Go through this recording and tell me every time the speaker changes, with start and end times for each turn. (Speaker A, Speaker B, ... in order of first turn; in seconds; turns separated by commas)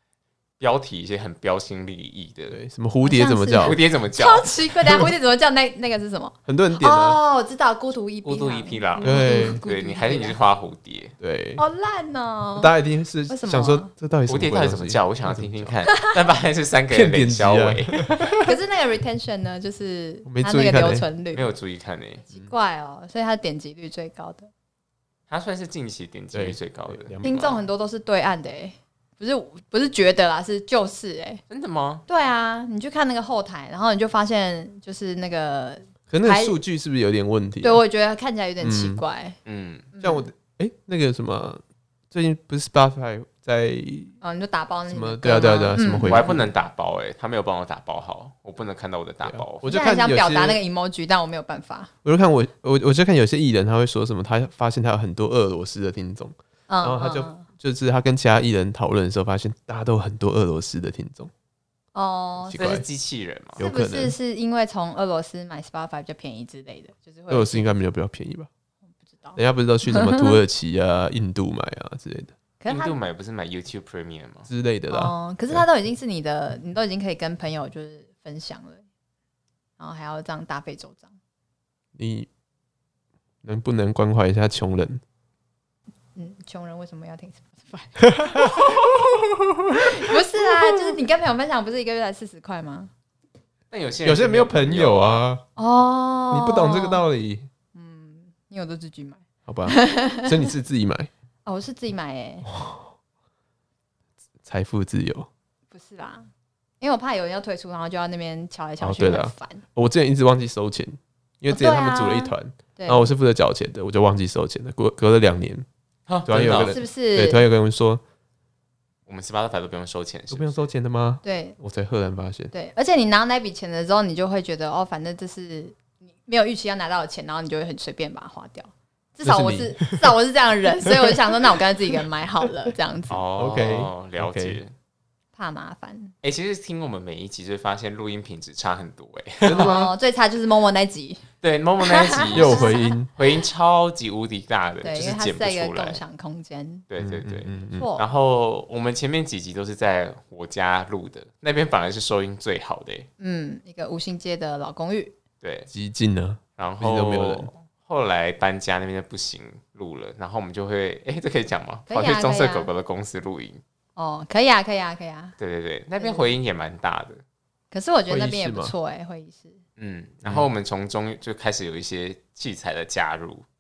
Speaker A: 0.6-2.6, Speaker B: 2.5-3.8, Speaker C: 3.0-10.4, Speaker A: 3.6-4.5, Speaker B: 6.5-7.2, Speaker A: 8.2-11.1, Speaker B: 9.0-9.6, Speaker B: 11.2-11.6, Speaker C: 11.6-12.7, Speaker B: 12.6-15.7, Speaker C: 13.3-13.9, Speaker A: 14.3-18.3, Speaker B: 16.9-18.5, Speaker C: 18.4-21.5, Speaker B: 20.3-21.1, Speaker A: 21.3-22.2, Speaker C: 22.3-24.5, Speaker A: 25.3-27.6, Speaker B: 26.3-27.3, Speaker C: 27.2-31.4, Speaker A: 31.5-32.0, Speaker C: 32.1-36.6, Speaker B: 36.1-37.8, Speaker C: 37.6-39.4, Speaker B: 38.6-39.0, Speaker A: 39.5-39.9, Speaker C: 39.9-40.3, Speaker B: 40.0-44.1, Speaker C: 44.2-46.3, Speaker B: 44.9-46.5, Speaker A: 46.0-49.7, Speaker B: 49.2-50.6, Speaker C: 49.7-51.9, Speaker B: 52.0-61.3, Speaker C: 56.7-57.5, Speaker C: 62.0-62.8, Speaker B: 62.5-62.9, Speaker A: 62.5-63.6, Speaker B: 63.6-64.2, Speaker C: 63.6-67.7, Speaker B: 67.3-68.5, Speaker C: 69.0-70.3, Speaker B: 69.4-72.3, Speaker C: 72.6-73.0, Speaker A: 72.7-74.5, Speaker B: 74.5-75.7, Speaker C: 74.9-78.8, Speaker C: 79.8-81.1, Speaker B: 82.0-82.3, Speaker B: 83.4-85.0, Speaker C: 86.2-88.9, Speaker B: 88.1-91.0, Speaker C: 89.8-92.9, Speaker A: 93.7-95.2, Speaker B: 94.0-95.4, Speaker C: 95.6-97.0, Speaker B: 96.3-97.5, Speaker C: 97.8-100.5, Speaker B: 99.5-101.1, Speaker C: 101.5-102.5, Speaker B: 102.5-102.8, Speaker B: 104.4-105.3, Speaker C: 105.7-106.3, Speaker C: 106.8-109.6, Speaker B: 108.8-115.7, Speaker C: 111.5-113.1, Speaker A: 116.1-116.8, Speaker B: 116.3-118.0, Speaker C: 116.5-117.4, Speaker A: 119.1-120.7, Speaker B: 120.3-122.5, Speaker C: 121.2-121.6, Speaker C: 122.5-133.2, Speaker B: 129.2-130.1, Speaker B: 130.8-131.2, Speaker A: 133.1-134.7, Speaker B: 133.4-134.6, Speaker C: 135.4-136.1, Speaker A: 136.2-139.8, Speaker B: 139.4-139.9, Speaker C: 139.5-141.2, Speaker A: 141.4-146.0, Speaker C: 141.8-142.9, Speaker B: 142.3-143.1, Speaker C: 144.8-146.8, Speaker A: 146.9-153.1, Speaker B: 147.0-147.9, Speaker C: 147.8-148.0, Speaker C: 153.2-155.2, Speaker A: 155.4-155.7, Speaker B: 155.7-157.5, Speaker A: 156.6-163.6, Speaker C: 161.9-162.7, Speaker C: 164.0-165.4, Speaker A: 165.4-167.2, Speaker C: 166.0-166.3, Speaker C: 167.7-169.6, Speaker B: 168.1-168.7, Speaker A: 169.8-173.4